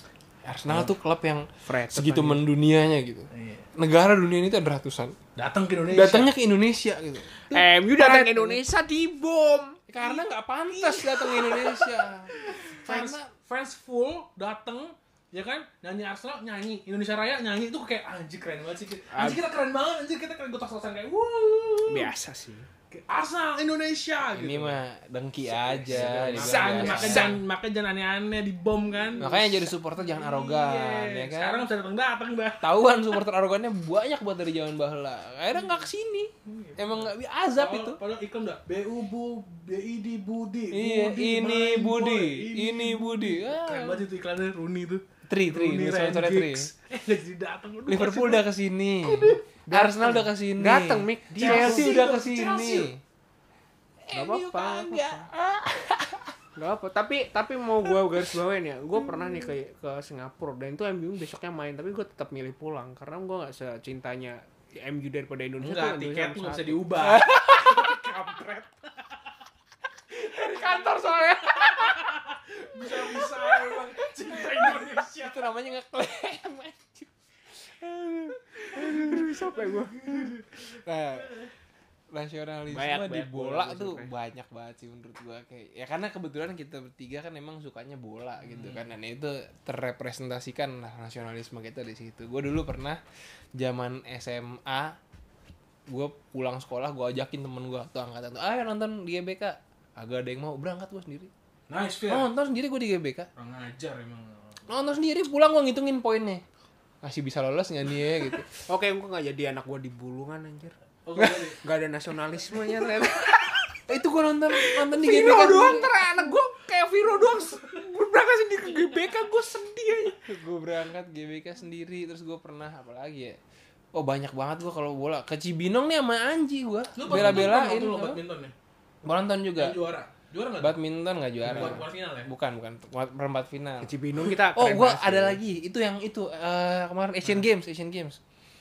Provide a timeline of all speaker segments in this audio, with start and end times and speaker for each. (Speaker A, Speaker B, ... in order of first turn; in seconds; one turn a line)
Speaker A: 0.5-5.2
Speaker B: 1.6-2.5
Speaker C: 3.3-3.7
Speaker C: 5.4-6.3
Speaker A: 5.9-8.6
Speaker B: 7.4-9.8
Speaker A: 9.9-13.3
Speaker C: 10.0-11.8
Speaker B: 12.4-12.7
Speaker C: 12.6-22.1
Speaker B: 19.1-19.4
Speaker B: 21.9-22.7
Speaker C: 22.9-24.8
Speaker A: 24.3-27.4
Speaker B: 25.5-27.4
Speaker C: 25.9-29.5
Speaker A: 29.2-31.7
Speaker C: 30.0-32.7
Speaker A: 32.6-38.0
Speaker C: 36.5-48.5
Speaker A: 40.7-44.0
Speaker A: 45.3-46.7
Speaker A: 47.9-53.0
Speaker C: 49.0-49.4
Speaker B: 49.7-52.0
Speaker C: 51.4-52.9
Speaker A: 54.1-56.3
Speaker B: 54.1-55.3
Speaker B: 56.6-67.0
Speaker C: 65.6-68.8
Speaker A: 67.0-68.0
Speaker A: 70.1-72.2
Speaker C: 71.2-75.5
Speaker A: 72.8-79.4
Speaker B: 78.6-80.2
Speaker C: 80.0-80.5
Speaker A: 80.1-81.4
Speaker A: 82.1-93.0
Speaker B: 82.7-84.1
Speaker C: 88.5-88.8
Speaker A: 93.6-95.0
Speaker A: 95.9-101.3
Speaker C: 101.7-102.3
Speaker A: 102.1-103.3
Speaker C: 103.4-104.7
Speaker A: 104.7-106.4
Speaker A: 107.0-108.5
Speaker B: 108.6-110.8
Speaker C: 111.1-111.6
Speaker A: 111.2-111.5
Speaker B: 111.6-113.8
Speaker A: 113.9-116.0
Speaker B: 114.5-120.2
Speaker A: 120.2-123.4
Speaker A: 123.9-128.2
Speaker C: 127.0-128.5
Speaker A: 129.0-129.8
Speaker C: 129.6-130.8
Speaker A: 130.6-134.0
Speaker C: 131.4-132.3
Speaker B: 133.8-135.4
Speaker A: 134.5-138.2